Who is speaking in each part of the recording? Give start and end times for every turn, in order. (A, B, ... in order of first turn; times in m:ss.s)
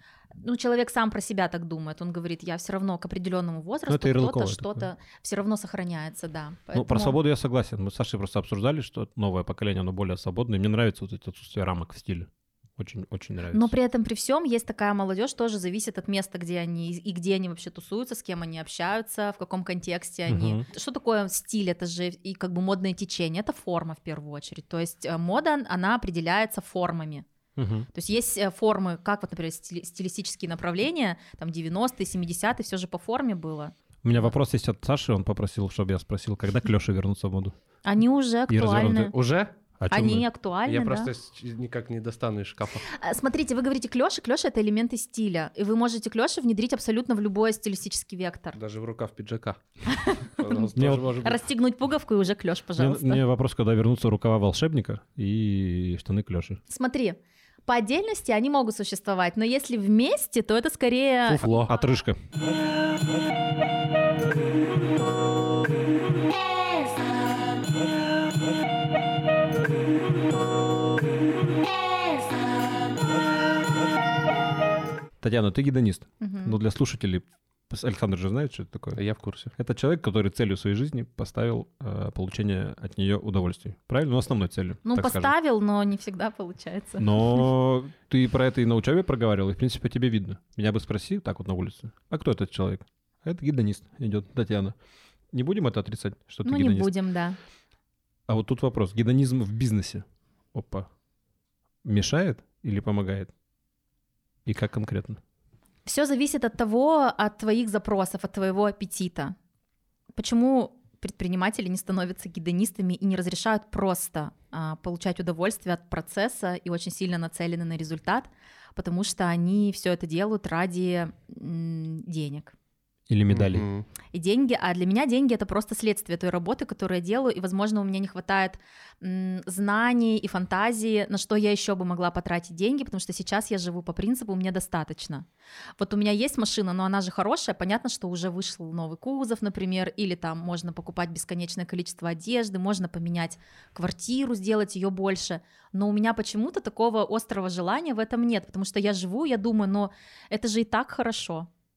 0:00.4-0:07.2 A
0:03.9-0:04.9 B
0:06.7-0:13.7 B
0:13.5-0:27.2 A
0:20.3-0:20.6 B
0:27.6-0:27.9 B
0:27.9-0:34.3 A
0:34.0-0:37.5 B
0:37.8-0:39.1 A
0:38.5-0:39.1 B
0:38.9-0:39.5 C
0:39.8-0:40.2 B
0:39.9-0:41.1 A
0:40.6-0:42.8 C
0:42.9-0:48.6 A
0:48.5-0:49.6 C
0:49.9-0:53.2 A
0:50.4-0:51.4 C
0:50.8-0:51.1 B
0:52.8-0:56.6 B
0:56.7-1:01.5 A
1:01.3-1:02.2 B
1:01.3-1:01.7 C
1:15.2-1:19.0 B
1:16.2-1:16.6 A
1:19.0-1:19.5 C
1:19.5-1:25.3 B
1:24.8-1:27.4 A
1:27.0-1:34.7 B
1:35.3-1:36.9 B
1:36.4-1:37.4 A
1:38.3-1:40.9 B
1:41.8-1:43.3 B
1:44.4-1:45.2 B
1:45.8-1:49.4 A
1:50.2-2:02.5 A
2:03.1-2:03.7 B
2:03.3-2:03.9 C
2:04.1-2:15.2 A
2:15.8-2:31.5 A